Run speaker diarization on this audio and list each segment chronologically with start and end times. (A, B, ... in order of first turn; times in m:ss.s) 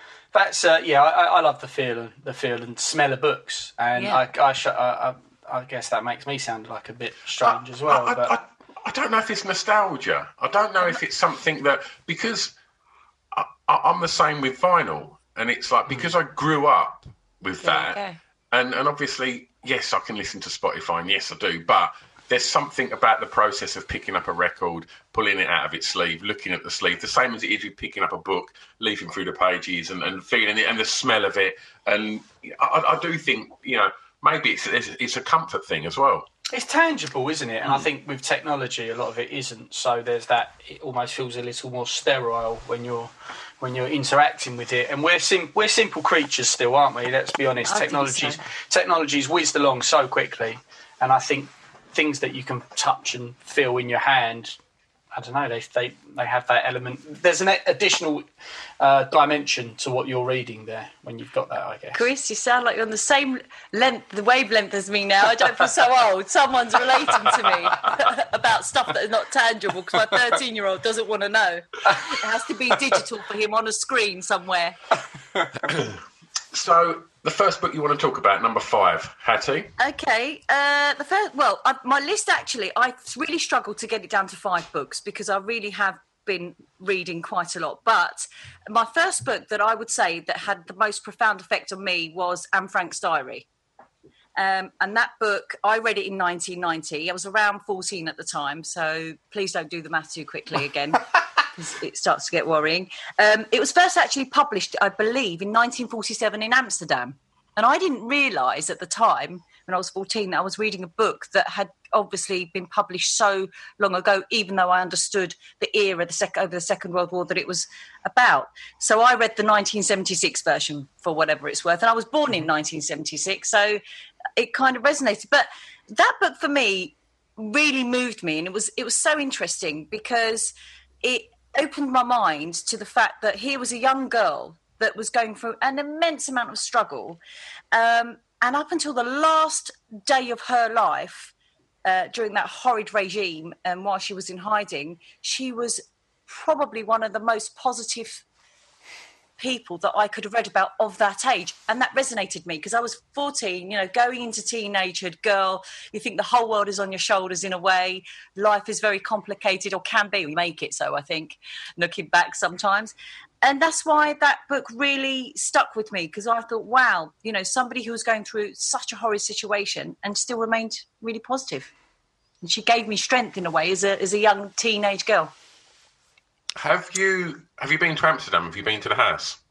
0:00.3-0:08.4 A
0:04.0-0:04.2 B
0:07.4-0:12.5 C
0:13.3-0:18.0 C
0:15.9-0:16.1 A
0:17.6-0:18.2 B
0:18.5-0:36.3 C
0:36.5-0:54.6 A
0:47.7-0:48.4 B
0:55.1-0:58.2 A
0:58.8-1:02.0 A
1:01.9-1:14.8 B
1:16.5-1:19.7 C
1:19.8-1:33.4 B
1:34.4-2:03.8 B
2:04.4-2:17.2 B
2:17.7-2:21.3 B
2:21.8-2:28.2 B
2:29.4-2:51.7 B
2:52.4-2:55.3 B
2:56.6-2:59.4 C